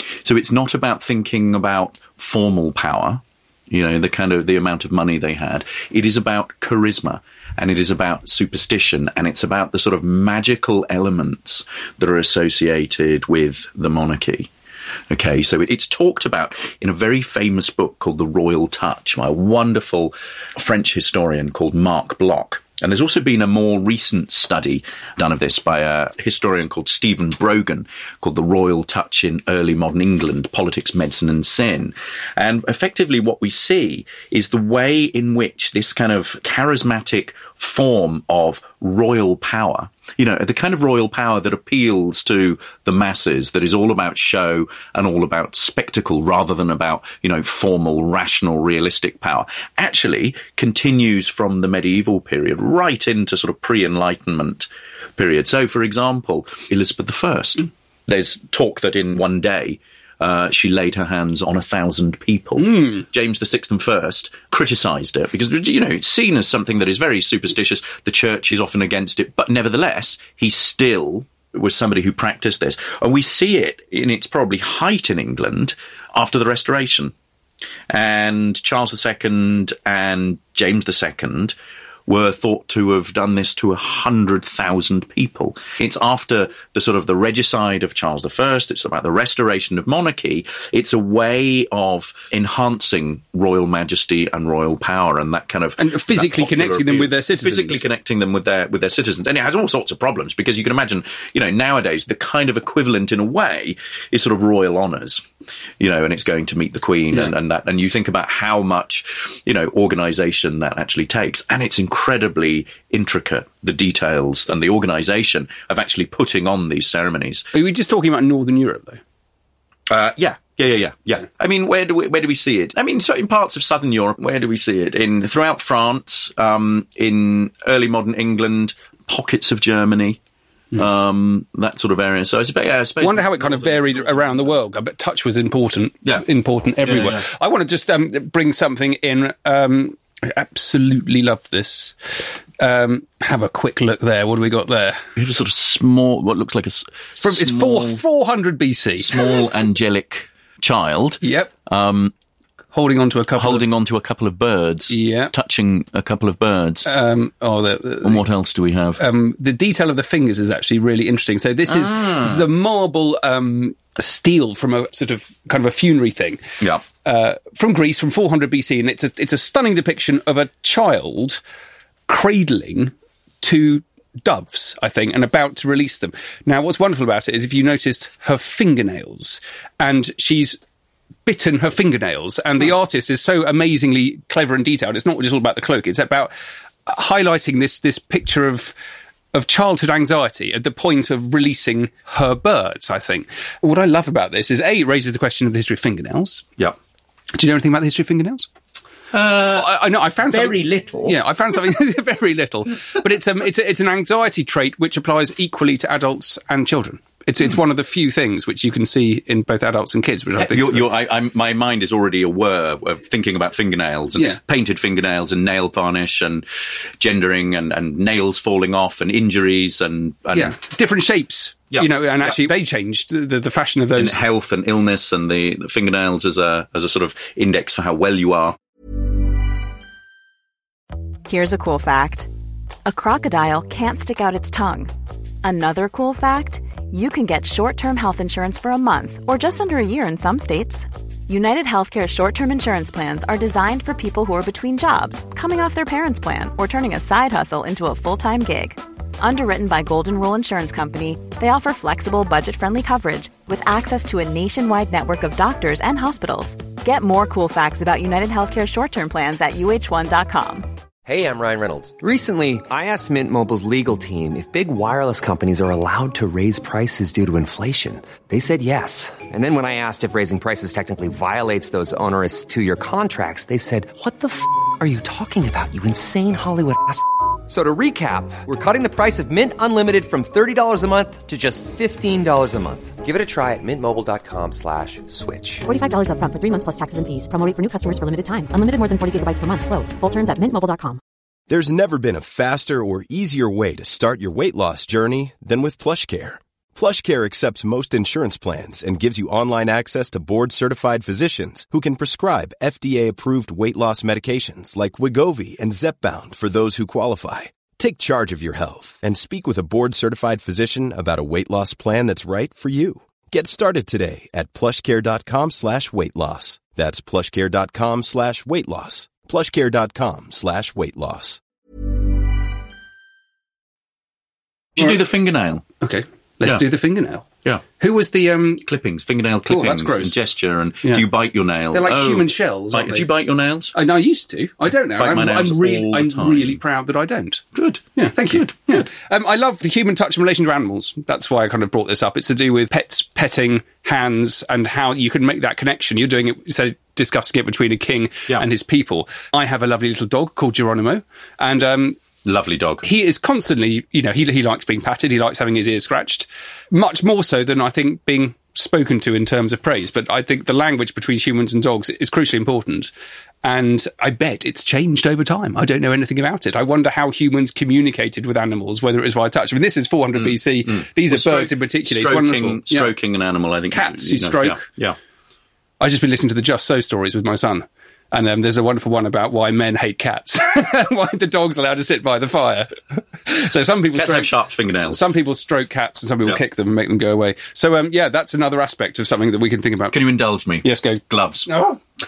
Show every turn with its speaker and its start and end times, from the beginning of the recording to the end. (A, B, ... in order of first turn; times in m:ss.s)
0:00.2-0:14.5 A
0:15.1-1:17.1 A
1:02.6-1:03.0 B
1:17.9-1:21.6 A
1:22.1-1:45.2 A
1:35.8-1:37.8 B
1:45.8-1:57.5 A
1:57.5-1:59.0 B
1:59.9-2:10.2 A
2:10.7-2:14.6 A
2:13.0-2:22.0 B
2:16.8-2:17.3 A
2:22.6-2:25.0 B
2:25.2-2:28.0 A
2:27.2-2:29.4 B
2:29.0-2:32.1 A
2:31.2-2:31.5 B
2:32.7-2:33.6 B
2:33.4-2:36.9 A
2:34.9-2:35.3 B
2:36.8-2:38.2 B
2:38.0-2:39.0 A
2:39.0-2:46.4 B
2:41.7-2:42.5 A
2:47.0-2:51.4 B
2:52.1-3:00.6 B
3:01.3-3:06.3 B
3:06.9-3:08.8 B
3:09.3-3:16.5 B
3:17.3-3:18.5 B
3:19.1-3:19.7 A
3:19.5-3:30.9 B
3:20.3-3:21.2 A
3:30.4-3:36.4 A
3:37.0-3:40.6 A
3:40.3-3:44.2 B
3:41.7-3:42.4 A
3:44.0-3:48.6 A
3:51.3-3:52.3 C
3:52.9-4:20.7 C
4:21.1-4:45.7 D
4:45.7-4:51.0 E
4:51.5-5:21.4 F
5:24.8-5:25.7 A
5:25.8-5:27.3 B
5:27.8-5:28.6 B
5:28.6-5:33.7 A
5:29.5-5:30.2 B
5:31.7-5:33.1 B
5:33.7-5:37.4 B
5:35.0-5:36.6 A
5:37.5-5:38.8 A
5:38.0-5:52.0 B
5:52.2-5:52.8 A
5:52.8-6:02.9 B
6:03.4-6:12.9 B
6:10.2-6:15.0 A
6:13.7-6:14.7 B
6:15.8-6:30.0 B
6:23.9-6:25.0 A
6:29.9-6:31.8 A
6:30.6-6:31.8 B